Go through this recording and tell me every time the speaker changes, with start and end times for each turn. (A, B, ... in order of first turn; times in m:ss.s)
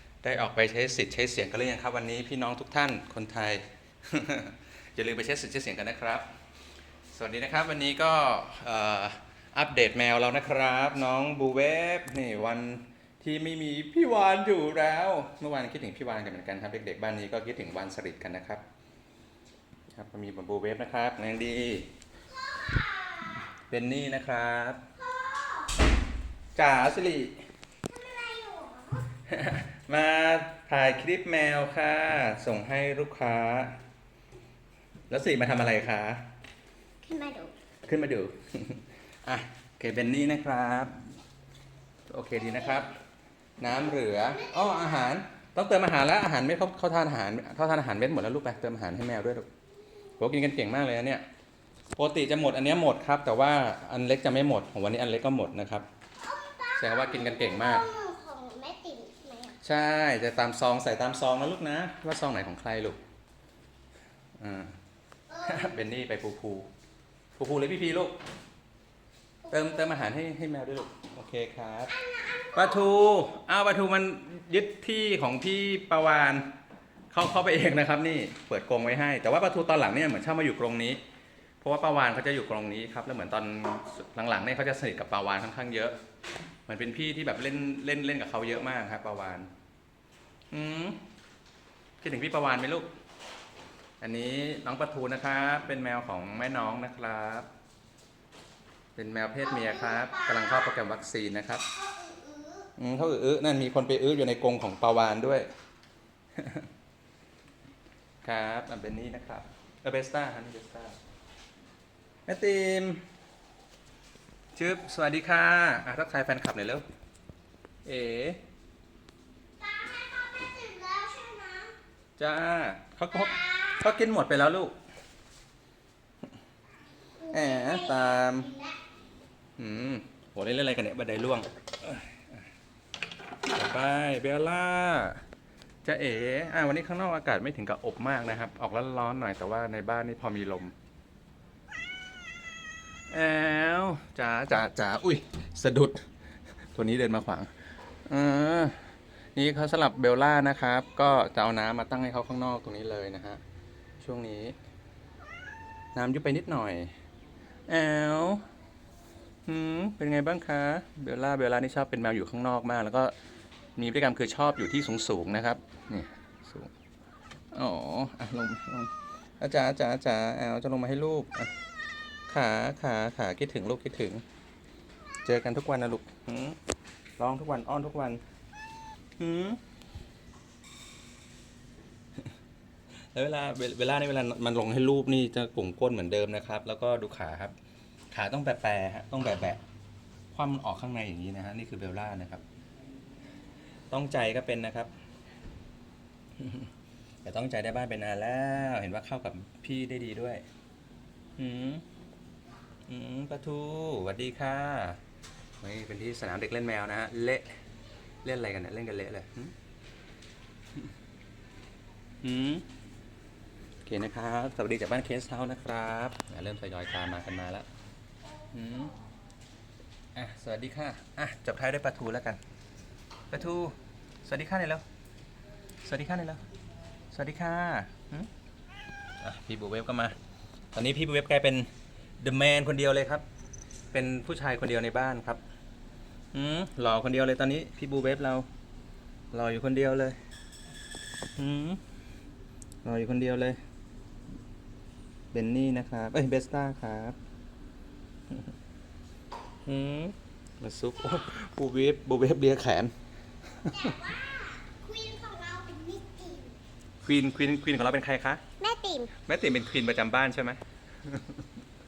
0:00.2-0:06.2 A
0:07.1-0:18.6 A
0:19.9-0:21.9 A
0:22.4-0:23.4 B
0:23.7-0:24.8 A
0:25.0-0:25.7 B
0:26.6-0:27.4 A
0:27.8-0:29.0 B
0:29.3-0:33.8 A
0:35.1-0:36.2 A
0:37.0-0:37.5 B
0:37.8-0:40.9 A
0:42.1-0:42.9 A
0:42.5-0:42.8 B
0:43.6-0:49.5 A
0:44.3-0:45.1 B
0:50.2-0:51.2 A
0:52.0-0:55.8 A
0:56.2-0:59.6 B
0:56.8-0:57.8 A
0:59.6-1:03.0 A
1:04.4-1:04.7 A
1:05.3-1:05.7 B
1:05.4-1:06.7 A
1:07.3-1:08.1 A
1:09.4-1:09.8 B
1:09.5-1:11.9 A
1:11.9-1:12.9 B
1:12.5-1:16.5 A
1:17.1-1:21.0 A
1:21.6-1:26.0 A
1:26.7-1:29.5 A
1:30.5-1:31.0 A
1:32.0-1:32.9 A
1:34.0-1:37.5 A
1:39.0-1:41.7 A
1:39.4-1:40.7 B
1:41.7-1:42.7 B
1:42.8-1:45.5 A
1:46.4-1:46.6 A
1:48.2-1:51.0 A
1:52.3-1:53.0 A
1:54.5-1:56.8 A
1:57.8-1:58.4 A
1:59.6-2:01.7 B
2:02.2-2:04.7 A
2:03.3-2:03.8 B
2:07.2-2:08.8 B
2:07.3-2:08.5 A
2:09.6-2:12.2 A
2:13.5-2:15.2 A
2:15.8-2:20.7 A
2:23.1-2:26.0 A
2:26.7-2:27.5 A
2:28.1-2:28.8 A
2:29.4-2:33.4 A
2:34.0-2:34.6 A
2:35.9-2:36.9 A
2:37.7-2:38.4 A
2:39.4-2:43.1 A
2:43.8-2:46.7 A
2:47.5-2:51.5 A
2:52.3-2:54.2 A
2:55.2-2:56.6 A
2:57.2-2:58.2 A
2:59.2-2:59.6 A
3:03.1-3:07.5 A
3:08.1-3:09.6 A
3:10.3-3:12.4 A
3:13.9-3:14.9 A
3:16.4-3:16.7 A
3:17.2-3:20.4 A
3:21.4-3:21.8 A
3:22.9-3:25.0 A
3:25.6-3:27.5 A
3:28.2-3:29.5 A
3:32.2-3:32.6 A
3:33.8-3:37.6 A
3:38.5-3:38.9 A
3:40.1-3:42.4 A
3:43.3-3:44.8 A
3:45.8-3:46.4 A
3:47.1-3:48.3 A
3:49.2-3:50.2 A
3:50.7-3:53.2 A
3:53.9-3:55.4 A
3:56.3-3:58.5 A
3:59.3-4:00.2 A
4:01.4-4:01.8 A
4:02.8-4:03.6 A
4:05.3-4:07.2 A
4:09.6-4:12.9 A
4:13.6-4:13.9 A
4:13.7-4:16.6 B
4:17.0-4:18.4 A
4:18.6-4:19.1 B
4:19.2-4:21.4 A